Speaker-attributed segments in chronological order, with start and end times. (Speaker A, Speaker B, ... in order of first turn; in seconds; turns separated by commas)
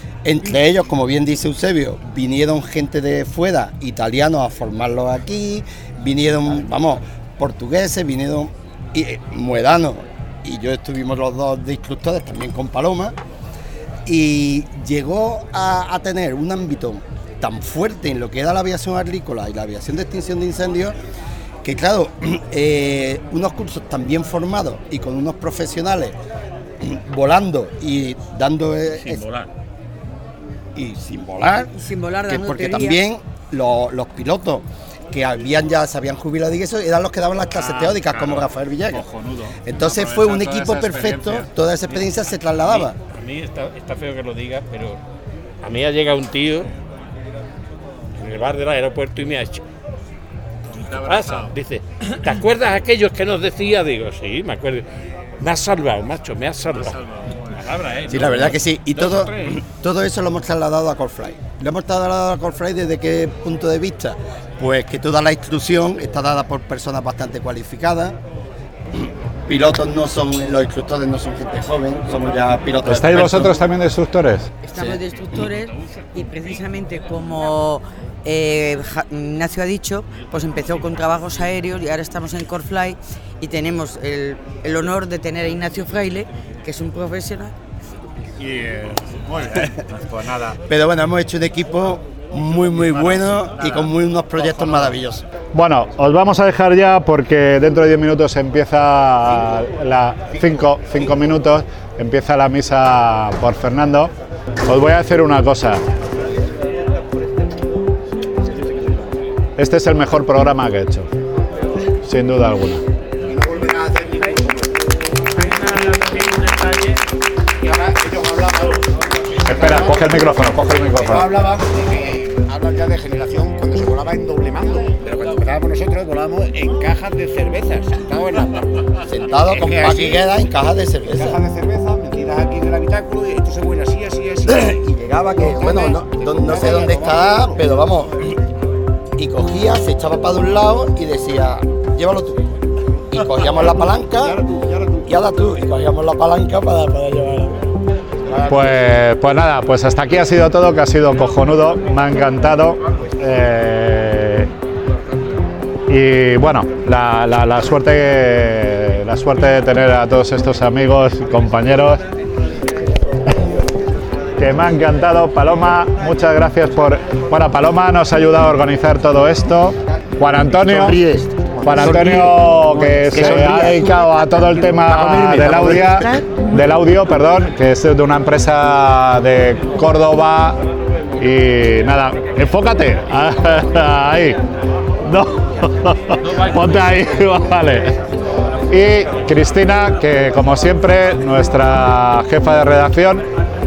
Speaker A: 0.2-13.2, Speaker A: 14.1-21.0, Speaker A: 21.6-26.1, Speaker A: 26.8-29.2, Speaker B: 28.9-29.5, Speaker A: 30.7-31.7, Speaker C: 31.7-33.0, Speaker A: 32.2-39.0, Speaker D: 37.5-41.5, Speaker A: 39.6-43.0, Speaker B: 42.7-45.0, Speaker B: 45.6-46.7, Speaker B: 48.2-49.6, Speaker D: 50.8-51.5, Speaker B: 50.9-54.9, Speaker B: 55.4-59.6, Speaker A: 58.1-68.2, Speaker A: 69.5-73.6, Speaker D: 72.8-74.5, Speaker C: 74.6-87.5, Speaker D: 88.4-90.6, Speaker A: 90.7-95.2, Speaker D: 92.9-93.7, Speaker D: 95.5-104.1, Speaker D: 104.6-105.8, Speaker D: 109.6-111.1, Speaker D: 112.0-112.8, Speaker E: 113.2-114.8, Speaker B: 115.3-117.0, Speaker E: 117.6-120.4, Speaker D: 119.5-121.3, Speaker E: 120.9-130.3, Speaker A: 129.1-131.4, Speaker E: 131.1-134.8, Speaker A: 134.4-138.2, Speaker E: 135.3-137.8, Speaker A: 139.2-142.5, Speaker A: 143.1-144.4, Speaker E: 143.2-145.2, Speaker A: 145.1-147.7, Speaker E: 148.2-148.7, Speaker D: 148.5-154.5, Speaker D: 155.9-162.0, Speaker D: 164.4-171.0, Speaker E: 170.7-172.1, Speaker D: 171.6-180.6, Speaker A: 171.6-173.9, Speaker E: 173.1-173.8, Speaker E: 174.9-176.1, Speaker A: 174.9-176.3, Speaker D: 181.2-184.4, Speaker D: 185.0-188.0, Speaker D: 188.7-193.2